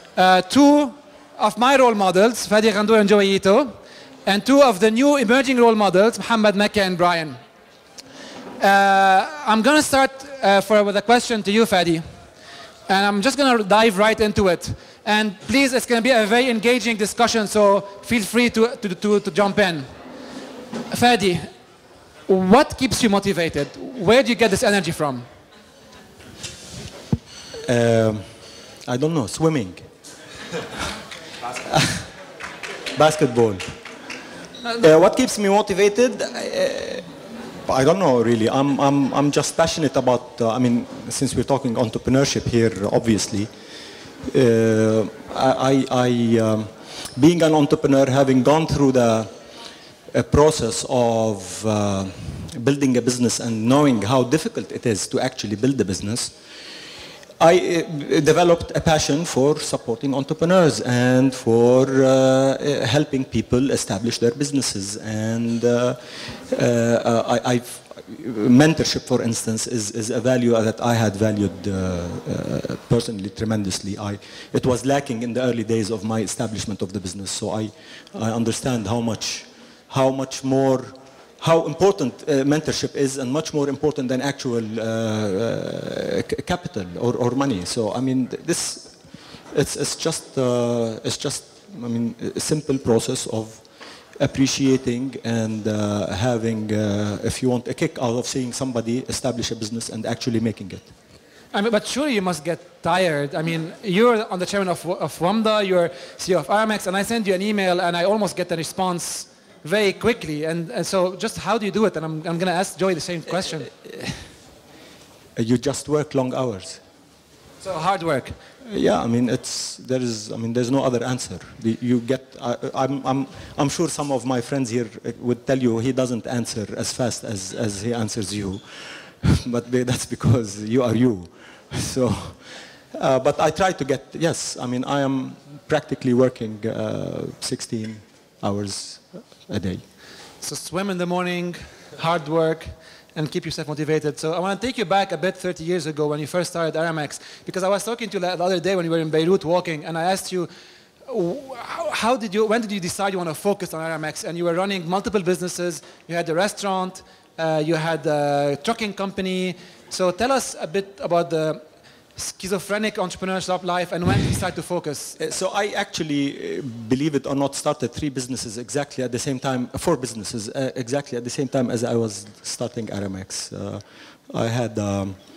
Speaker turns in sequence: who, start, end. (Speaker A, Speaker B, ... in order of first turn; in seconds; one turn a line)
Speaker A: 0.1-7.4
Speaker A: 8.6-12.0
Speaker A: 12.9-19.9
Speaker A: 20.9-21.5
Speaker A: 22.3-25.2
Speaker B: 27.6-28.3
Speaker B: 28.9-29.8
Speaker B: 31.6-32.1
Speaker B: 32.9-33.6
Speaker B: 34.8-37.0
Speaker B: 37.7-43.5
Speaker B: 44.3-49.3
Speaker B: 50.1-56.3
Speaker B: 57.4-88.9
Speaker B: 89.5-93.6
Speaker B: 94.2-100.9
Speaker A: 101.5-113.7
Speaker B: 113.8-114.2
Speaker B: 115.3-116.8
Speaker A: 117.6-118.3
Speaker B: 118.6-139.8
Speaker A: 140.4-150.5
Speaker A: 151.1-161.6
Speaker A: 162.1-165.2
Speaker B: 165.2-175.2